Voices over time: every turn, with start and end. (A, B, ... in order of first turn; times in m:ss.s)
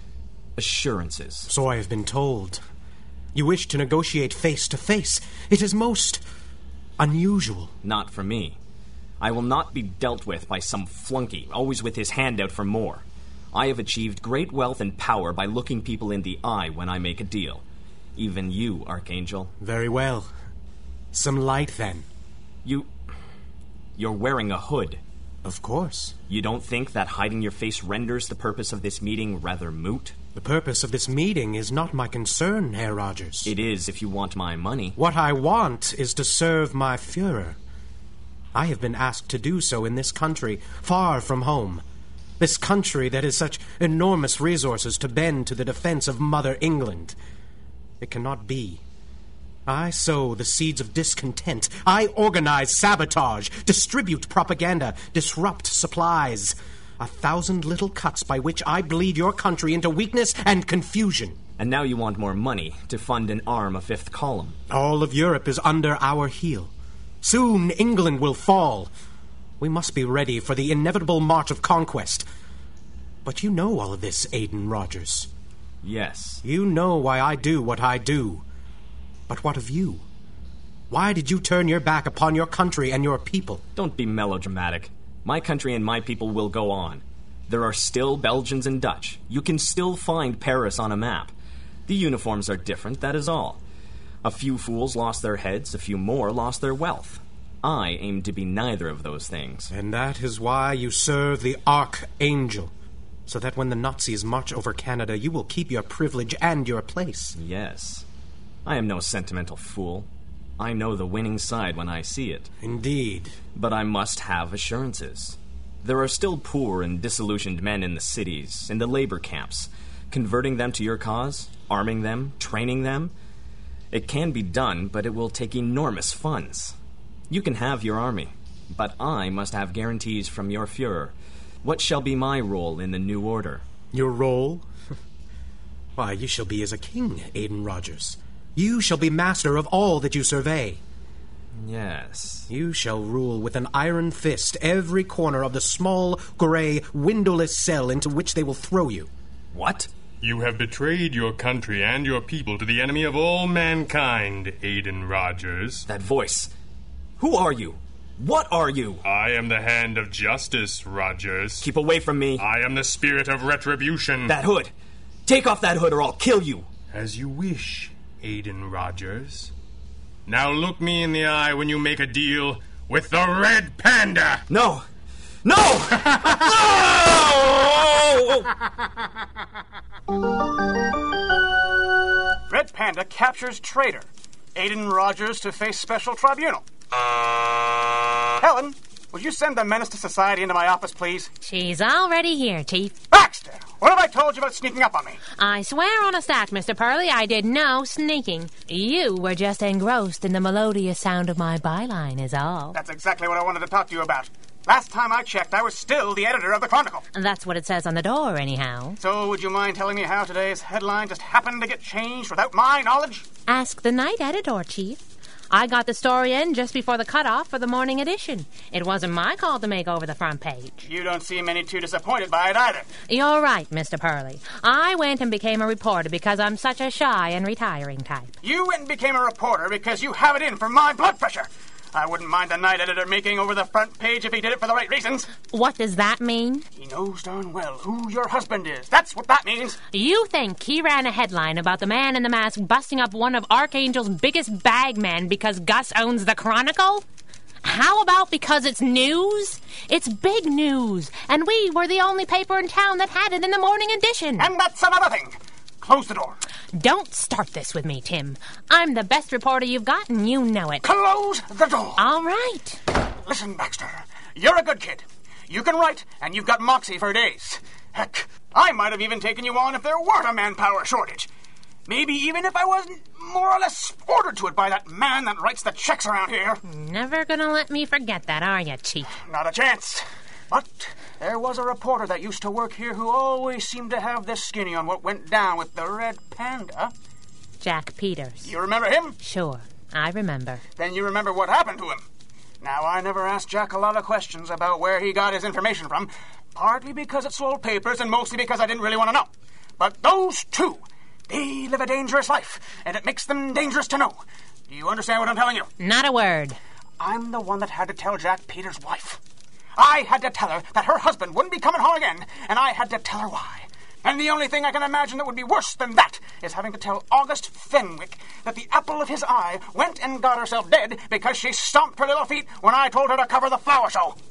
0:00.6-0:01.5 A
0:01.5-0:02.6 B
0:03.3-0:06.2 B
0:07.0-0:07.7 B
0:07.8-0:08.6 A
0:09.2-0:17.6 A
0:18.2-0:19.5 A
0:19.6-0:20.3 B
0:21.1-0:22.1 B
0:22.6-0:22.9 A
0:24.0-0:25.0 A
0:25.4-0:26.2 B
0:26.3-0:30.2 A
0:30.3-0:33.5 B
0:33.4-0:35.0 A
0:35.0-0:37.6 B
0:38.5-0:41.8 B
0:42.4-0:47.2 B
0:48.0-0:48.8 B
0:49.7-1:01.4 B
1:01.6-1:04.6 A
1:04.7-1:08.9 B
1:09.6-1:12.3 B
1:13.2-1:15.3 B
1:15.8-1:16.4 A
1:16.4-1:18.4 B
1:19.3-1:20.0 B
1:20.9-1:23.6 B
1:23.8-1:31.3 A
1:31.8-1:33.6 A
1:34.2-1:39.7 A
1:39.7-1:42.7 B
1:43.3-1:47.4 B
1:47.4-1:48.0 A
1:48.6-1:52.5 A
1:52.6-1:53.4 B
1:53.5-2:03.1 A
2:03.9-2:06.7 A
2:07.3-2:13.6 A
2:13.9-2:14.7 B
2:16.0-2:20.8 B
2:21.5-2:22.5 A
2:22.5-2:29.1 B
2:29.5-2:29.9 A
2:30.2-2:35.8 C
2:35.9-2:36.5 A
2:37.2-2:39.0 A
2:39.0-2:41.7 C
2:41.6-2:42.5 A
2:42.4-2:44.4 C
2:44.2-2:44.7 A
2:45.2-2:46.7 A
2:46.9-2:49.5 C
2:50.2-2:54.4 C
2:54.5-2:54.8 A
2:55.4-2:58.5 A
2:56.0-2:56.4 C
3:02.5-3:06.6 D
3:08.4-3:11.3 D
3:11.4-3:12.9 E
3:13.1-3:15.2 D
3:15.4-3:22.8 E
3:22.7-3:27.0 D
3:27.1-3:29.0 E
3:29.0-3:33.2 D
3:33.5-3:40.8 E
3:40.8-3:42.9 D
3:43.1-3:48.3 E
3:48.4-3:55.3 D
3:55.5-3:56.7 E
3:56.8-3:59.8 D
3:59.9-4:07.0 E
4:07.6-4:14.5 E
4:14.4-4:16.4 D
4:16.7-4:20.9 E
4:20.8-4:22.0 D
4:22.0-4:22.8 E
4:23.2-4:31.3 D
4:31.9-4:36.6 D
4:36.6-4:39.1 E
4:39.2-4:46.9 D
4:47.6-4:48.5 E
4:48.4-4:49.2 D
4:49.2-4:50.6 E
4:50.8-4:52.0 D
4:52.6-5:05.7 D
5:05.8-5:06.6 E
5:07.0-5:09.2 D
5:09.8-5:24.2 D